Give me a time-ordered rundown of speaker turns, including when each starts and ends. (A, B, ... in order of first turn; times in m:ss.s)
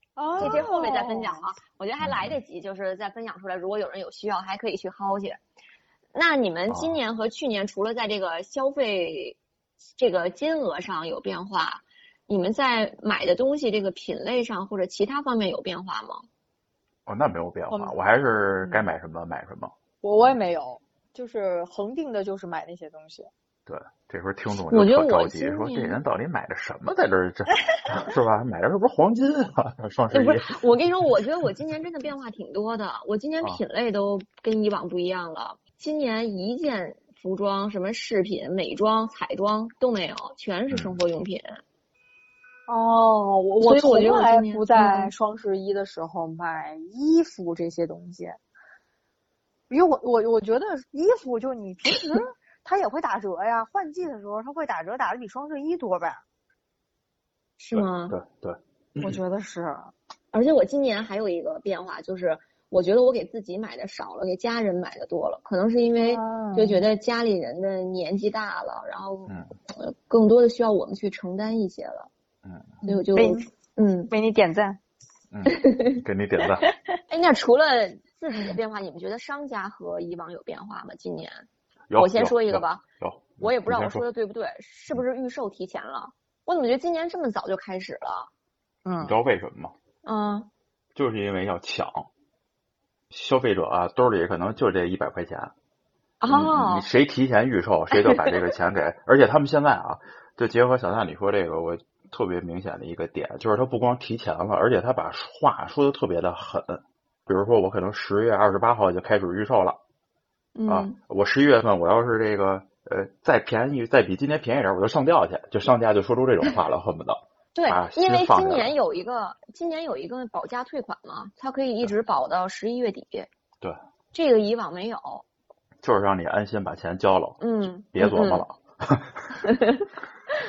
0:00.2-0:01.4 A
0:00.4-0:05.4 B
0:02.0-0:02.4 C
0:06.1-0:09.4 B
0:10.0-0:16.3 B
0:17.1-0:19.7 C
0:20.0-0:23.3 A
0:23.7-0:30.6 C
0:24.7-0:26.0 B
0:30.1-0:41.6 B
0:40.7-0:41.0 C
0:42.7-0:48.4 A
0:43.6-0:45.1 B
0:49.7-0:56.2 A
0:57.6-0:58.2 B
0:57.7-0:59.2 C
0:59.0-0:59.9 A
1:00.3-1:12.1 B
1:06.0-1:06.8 A
1:09.3-1:09.5 C
1:12.4-1:12.7 C
1:12.8-1:13.5 A
1:12.8-1:14.1 B
1:14.1-1:14.8 A
1:15.3-1:16.7 C
1:15.5-1:16.0 B
1:17.1-1:21.4 B
1:21.9-1:24.0 C
1:22.0-1:22.8 B
1:23.4-1:28.3 B
1:28.8-1:29.2 A
1:29.0-1:29.7 C
1:30.0-1:30.5 B
1:31.0-1:32.1 C
1:33.1-1:35.5 C
1:36.2-1:36.9 B
1:36.3-1:49.8 C
1:50.6-1:51.0 B
1:50.7-1:58.7 C
1:57.6-2:03.3 B
2:04.1-2:05.2 B
2:05.8-2:09.4 C
2:07.4-2:08.4 B
2:09.5-2:09.9 B